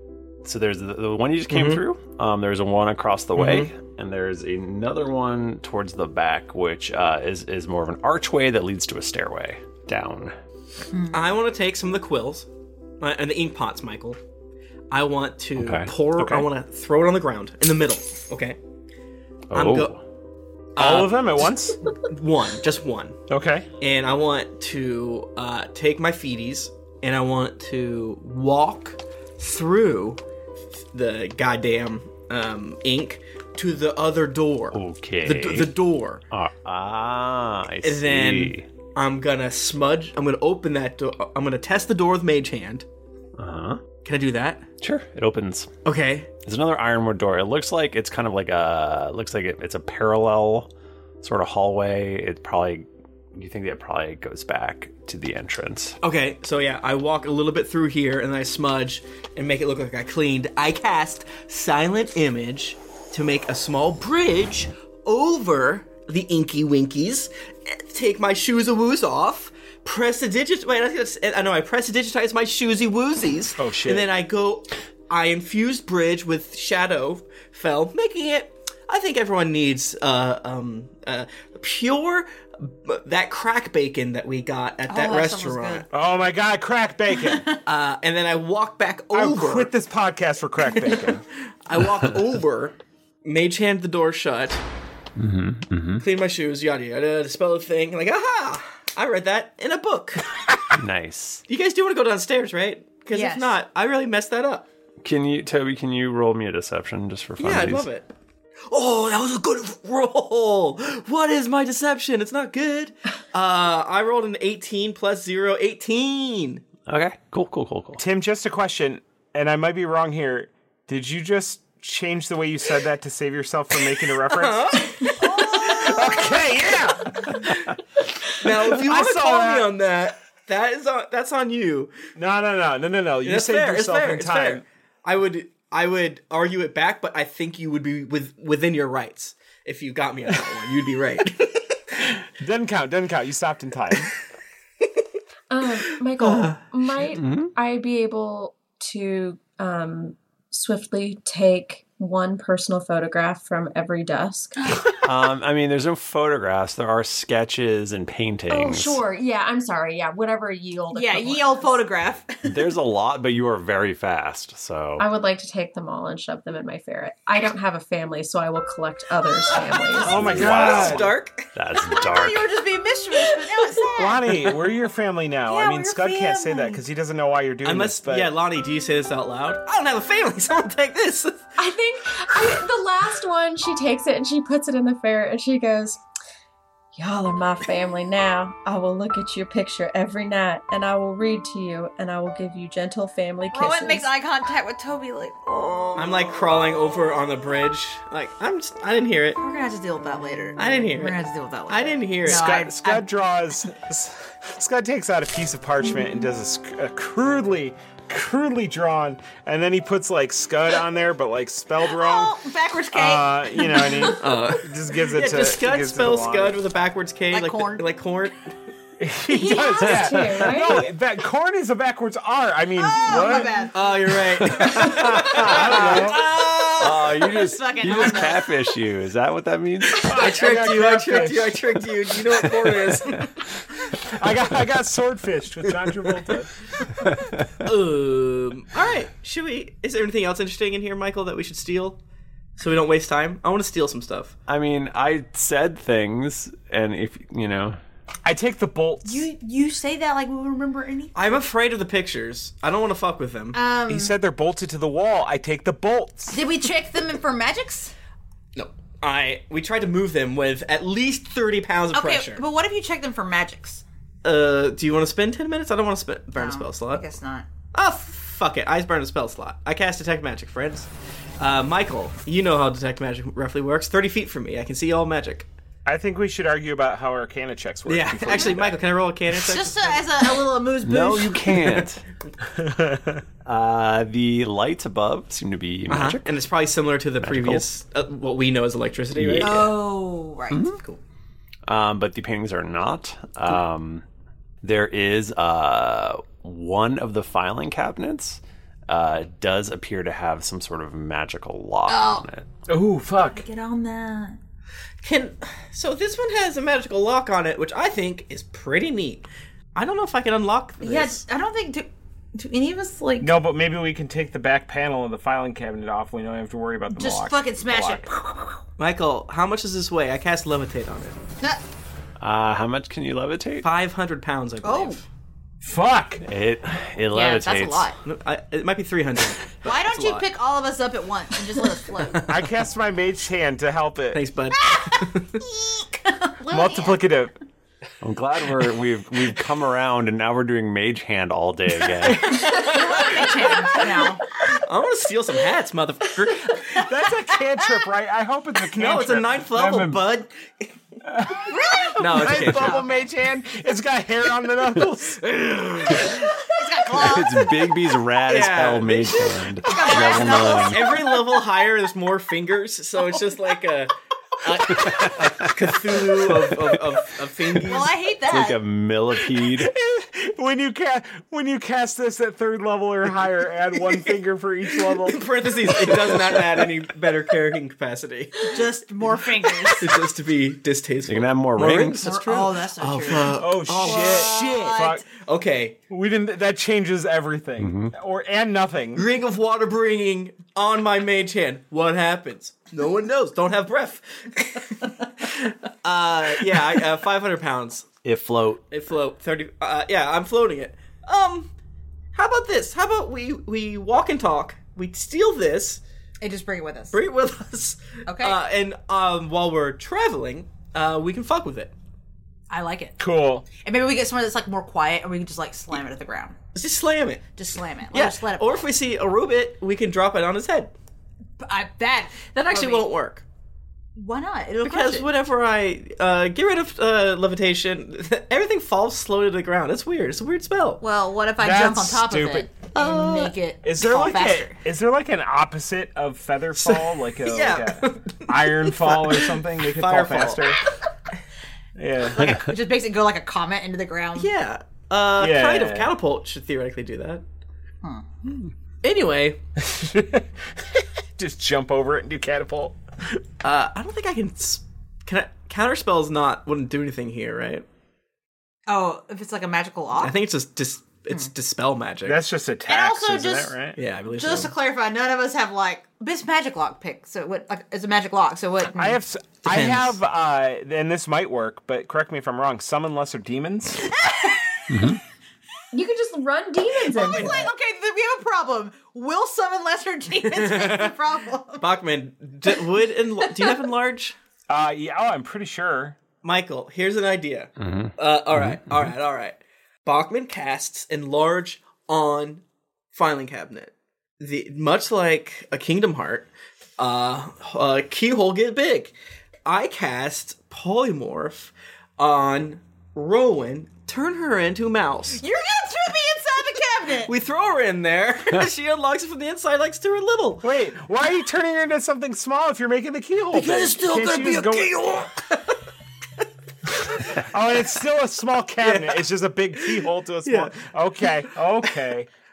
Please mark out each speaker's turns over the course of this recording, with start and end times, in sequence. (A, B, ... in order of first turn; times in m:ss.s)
0:00.4-0:10.3 A
0:01.5-0:01.8 B
0:03.4-0:03.7 B
0:10.9-0:11.3 C
0:11.1-0:12.5 B
0:13.0-0:14.2 B
0:14.9-0:18.6 B
0:15.6-0:15.9 A
0:16.2-0:16.5 D
0:19.5-0:20.0 A
0:19.5-0:19.9 B
0:20.8-0:21.2 B
0:20.8-0:21.8 D
0:22.1-0:23.2 B
0:23.3-0:23.7 D
0:23.8-0:30.2 B
0:30.9-0:36.2 B
0:34.7-0:35.7 A
0:36.3-0:38.7 A
0:37.8-0:42.8 B
0:43.4-0:43.9 A
0:44.0-0:44.6 B
0:44.8-0:45.7 A
0:45.8-0:46.3 B
0:46.4-0:50.7 A
0:51.2-0:56.0 A
0:56.0-1:25.9 B
1:13.6-1:14.1 D
1:24.9-1:25.9 C
1:25.9-1:27.5 D
1:27.3-1:27.6 C
1:27.7-1:29.7 B
1:29.1-1:31.2 D
1:30.8-1:31.1 B
1:31.7-1:34.6 B
1:35.2-1:36.0 A
1:36.0-1:40.3 B
1:40.8-1:41.4 A
1:41.5-1:44.7 B
1:43.1-1:43.6 C
1:45.0-1:47.9 A
1:47.4-1:48.1 B
1:48.7-1:56.6 B
1:56.9-1:58.0 A
1:58.0-2:04.7 D
2:04.3-2:05.7 B
2:05.2-2:06.4 C
2:05.6-2:07.4 D
2:08.4-2:11.9 B
2:08.7-2:09.7 D
2:12.2-2:14.6 D
2:13.2-2:22.2 B
2:22.4-2:24.1 D
2:25.5-2:34.6 E
2:26.2-2:26.6 B
2:27.2-2:27.5 A
2:35.0-2:39.0 A
2:38.5-2:41.6 E
2:40.9-2:42.5 C
2:42.4-2:45.0 A
2:45.0-2:50.2 E
2:50.0-2:52.5 A
2:50.0-2:51.2 D
2:50.3-2:51.5 B
2:51.7-2:54.5 C
2:54.0-2:58.3 D
2:55.5-2:56.8 C
2:57.6-3:01.5 B
3:01.6-3:06.0 E
3:07.0-3:14.1 E
3:13.5-3:16.4 C
3:16.0-3:19.4 B
3:19.4-3:23.1 C
3:20.6-3:22.6 B
3:22.2-3:32.4 D
3:31.8-3:34.2 C
3:32.9-3:36.6 D
3:34.2-3:38.4 B
3:37.3-3:37.9 C
3:39.0-3:43.7 D
3:39.3-3:40.9 E
3:42.8-3:44.1 C
3:43.7-3:46.5 B
3:44.7-3:48.5 C
3:44.8-3:46.2 D
3:46.8-3:50.1 A
3:50.0-3:53.3 B
3:50.0-3:51.7 D
3:52.6-3:52.9 A
3:54.1-3:56.5 D
3:57.6-4:02.0 B
4:02.6-4:04.3 B
4:04.5-4:07.8 A
4:08.2-4:09.3 D
4:09.0-4:11.4 C
4:11.2-4:13.6 B
4:13.6-4:14.2 C
4:13.9-4:16.4 D
4:16.3-4:17.9 C
4:18.6-4:22.4 B
4:21.9-4:23.8 C
4:24.2-4:27.0 B
4:26.4-4:27.5 C
4:27.7-4:35.5 B
4:35.9-4:38.8 D
4:37.9-4:40.1 B
4:38.3-4:38.6 C
4:39.3-4:41.6 C
4:40.8-4:42.0 A
4:42.6-4:43.2 D
4:43.4-4:46.3 A
4:45.9-4:49.7 B
4:47.2-4:47.7 A
4:49.2-4:49.7 A
4:49.4-4:50.8 C
4:50.8-4:51.0 B
4:51.7-4:54.0 A
4:54.6-5:02.5 A
5:01.9-5:02.2 C
5:02.7-5:03.4 D
5:03.3-5:04.4 C
5:05.0-5:11.2 B
5:10.8-5:13.3 C
5:13.2-5:18.1 D
5:16.9-5:18.6 C
5:18.8-5:21.2 B
5:22.2-5:23.7 A
5:23.6-5:25.1 B
5:24.6-5:25.0 C
5:25.6-5:26.2 D
5:26.3-5:27.9 A
5:27.1-5:28.0 C
5:28.0-5:30.3 B
5:29.6-5:32.3 C
5:32.3-5:34.2 D
5:34.1-5:35.4 B
5:34.6-5:37.0 C
5:36.5-5:37.4 D
5:38.0-5:42.4 A
5:42.1-5:43.2 B
5:42.3-5:44.3 C
5:44.6-5:46.8 B
5:46.8-5:50.0 D
5:48.8-5:50.7 B
5:51.0-5:56.3 D
5:51.5-5:52.9 C
5:52.0-5:52.8 B
5:56.1-5:57.5 C
5:56.9-6:01.0 A
5:58.3-6:07.9 B
5:59.6-6:01.6 C
6:03.0-6:03.5 C
6:04.9-6:05.5 A
6:07.6-6:08.6 C
6:08.3-6:09.7 A
6:09.6-6:16.4 D
6:14.9-6:18.6 B
6:18.5-6:20.0 C
6:19.7-6:25.8 B
6:21.1-6:22.2 A
6:22.0-6:25.0 C
6:23.4-6:25.1 D
6:25.9-6:29.1 D
6:27.6-6:27.9 A
6:29.0-6:37.9 B
6:38.0-6:38.6 A
6:38.7-6:41.5 B
6:42.1-6:45.8 B
6:46.2-6:47.0 C
6:46.9-6:51.7 B
6:48.1-6:48.4 C
6:52.5-6:53.0 C
6:53.0-6:53.5 D
6:53.6-6:56.4 C
6:56.6-6:57.2 B
6:57.4-6:58.7 C
6:57.9-7:00.7 B
7:01.4-7:02.9 C
7:02.4-7:03.2 B
7:04.0-7:05.1 C
7:04.6-7:10.8 B
7:10.8-7:14.6 C
7:11.4-7:12.7 D
7:12.8-7:13.3 B
7:13.6-7:20.6 D
7:16.6-7:20.4 B
7:21.8-7:22.4 D
7:22.1-7:24.3 C
7:24.2-7:27.2 B
7:25.2-7:25.9 D
7:27.8-7:28.1 C
7:28.8-7:29.4 B
7:29.6-7:30.3 D
7:31.2-7:32.8 D
7:33.4-7:37.6 B
7:38.7-7:40.2 C
7:40.0-7:42.2 B
7:42.1-7:43.8 D
7:42.7-7:43.6 C
7:43.8-7:44.5 B
7:44.1-7:49.0 C
7:48.7-7:53.9 D
7:49.4-7:49.9 B
7:54.0-7:54.6 C
7:54.7-7:55.0 A
7:55.7-7:57.5 E
7:56.9-8:01.7 C
8:00.2-8:00.9 B
8:01.6-8:04.2 B
8:03.4-8:03.6 C
8:04.5-8:06.0 D
8:06.2-8:18.9 B
8:07.6-8:08.9 A
8:19.4-8:25.2 B
8:25.2-8:27.1 C
8:27.1-8:30.4 B
8:30.4-8:35.1 D
8:33.3-8:35.1 C
8:37.3-8:42.1 D
8:38.6-8:39.0 B
8:39.6-8:40.6 B